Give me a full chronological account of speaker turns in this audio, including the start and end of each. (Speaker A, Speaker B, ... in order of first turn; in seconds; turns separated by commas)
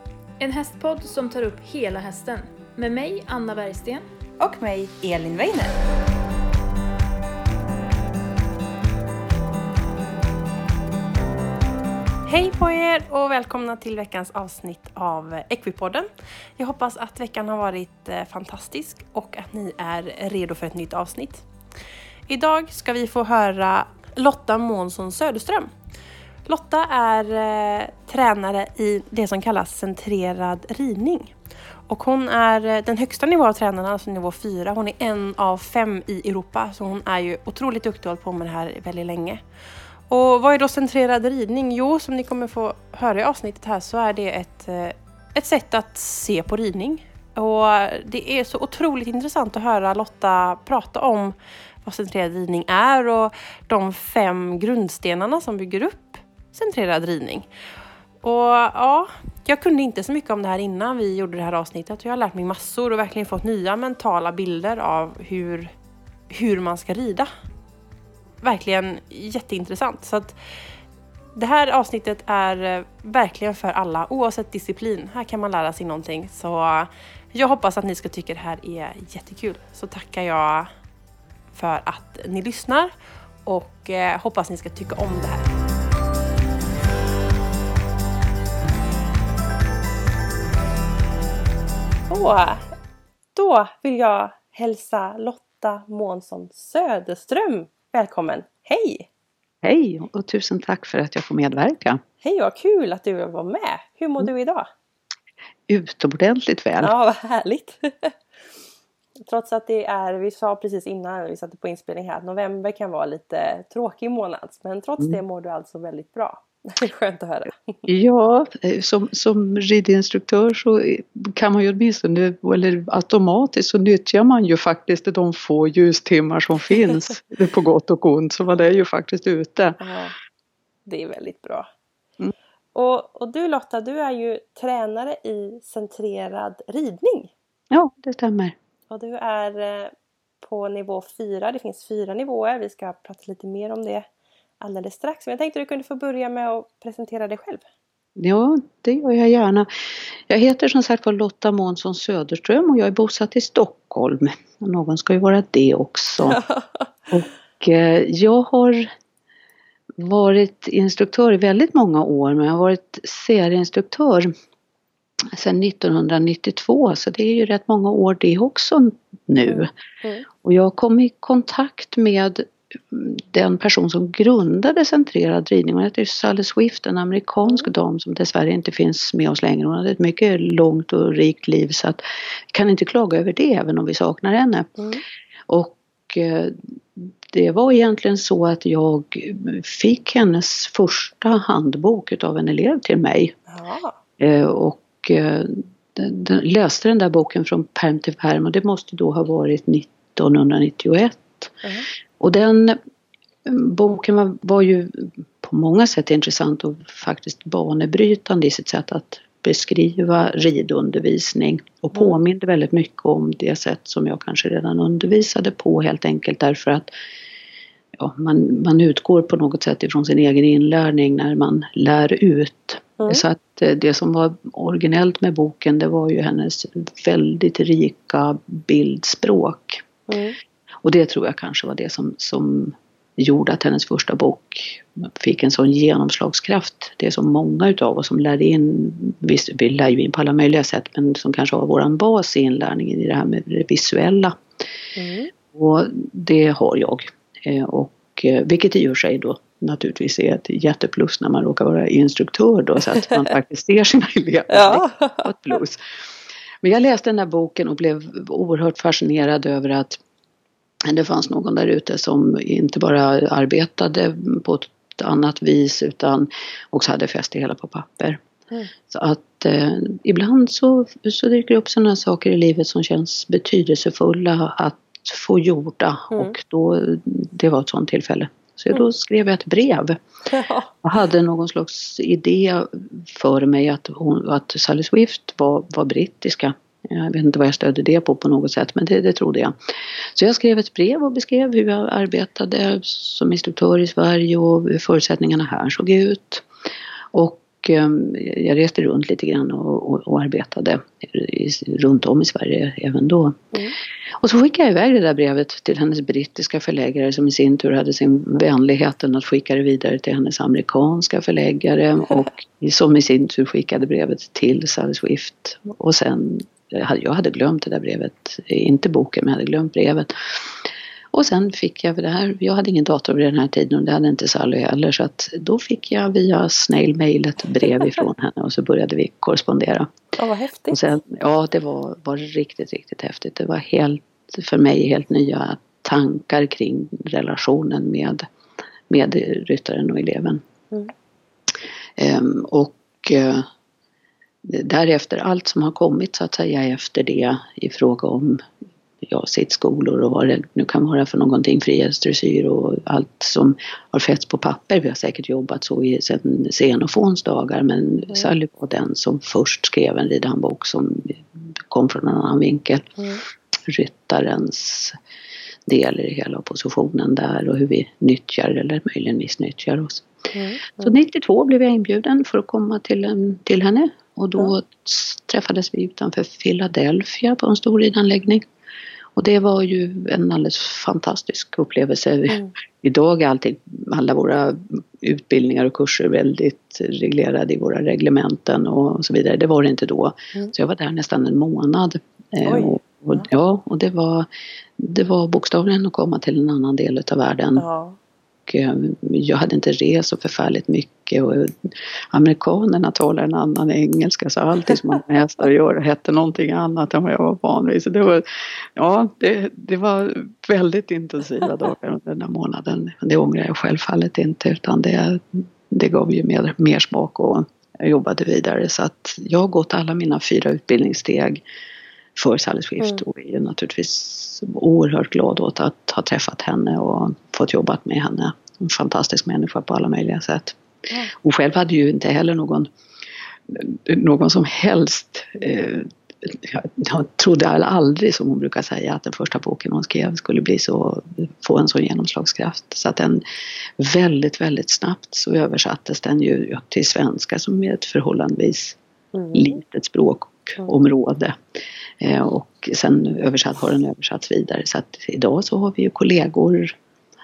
Speaker A: 0.4-4.0, Speaker B: 4.4-5.7, Speaker B: 12.3-21.5, Speaker B: 22.3-25.7, Speaker B: 26.5-31.3, Speaker B: 31.9-39.4, Speaker B: 40.1-57.5, Speaker B: 58.2-65.7, Speaker B: 66.3-67.3, Speaker B: 68.4-70.4, Speaker B: 71.3-80.7, Speaker B: 81.5-82.9, Speaker B: 83.5-85.5, Speaker B: 92.1-92.6, Speaker B: 93.4-99.1, Speaker C: 99.6-102.0, Speaker B: 102.2-104.7, Speaker C: 105.7-106.9, Speaker B: 106.8-108.1, Speaker B: 109.3-117.8, Speaker C: 117.9-129.8, Speaker B: 129.8-130.2, Speaker B: 130.9-131.7, Speaker B: 132.8-137.3, Speaker C: 137.7-138.6, Speaker B: 138.9-144.1, Speaker B: 144.6-147.6, Speaker C: 148.2-149.7, Speaker C: 150.3-156.4, Speaker B: 156.2-156.9, Speaker C: 157.1-158.9, Speaker C: 160.0-164.3, Speaker C: 165.3-169.7, Speaker B: 169.5-170.3, Speaker C: 170.4-182.0, Speaker C: 182.5-184.8, Speaker B: 184.8-185.0, Speaker C: 185.5-193.3, Speaker B: 193.5-194.0, Speaker C: 194.2-201.6, Speaker C: 202.2-202.8, Speaker C: 203.4-216.9, Speaker C: 218.0-229.8, Speaker B: 230.1-230.4, Speaker C: 230.8-244.4, Speaker B: 245.0-245.3, Speaker C: 245.5-255.8, Speaker B: 254.5-255.6, Speaker C: 256.6-260.0, Speaker C: 260.9-268.2, Speaker C: 268.9-280.0, Speaker B: 280.3-280.7, Speaker C: 280.8-289.5, Speaker C: 290.1-296.5, Speaker C: 297.1-303.4, Speaker C: 304.2-320.5, Speaker C: 321.1-329.9, Speaker B: 330.2-330.9, Speaker C: 330.7-338.3, Speaker C: 338.9-340.4, Speaker C: 342.0-343.5, Speaker C: 344.4-348.4, Speaker C: 349.0-362.9, Speaker C: 363.7-365.0, Speaker C: 365.7-370.1, Speaker B: 370.3-370.9, Speaker C: 370.8-378.5, Speaker C: 379.2-397.6, Speaker B: 392.4-393.2, Speaker B: 397.6-398.0, Speaker C: 398.5-408.2, Speaker C: 408.8-421.4, Speaker C: 422.2-430.6, Speaker C: 431.2-432.7, Speaker C: 433.5-443.2, Speaker C: 443.8-448.8, Speaker B: 449.1-449.6, Speaker C: 449.3-451.3, Speaker C: 452.0-456.8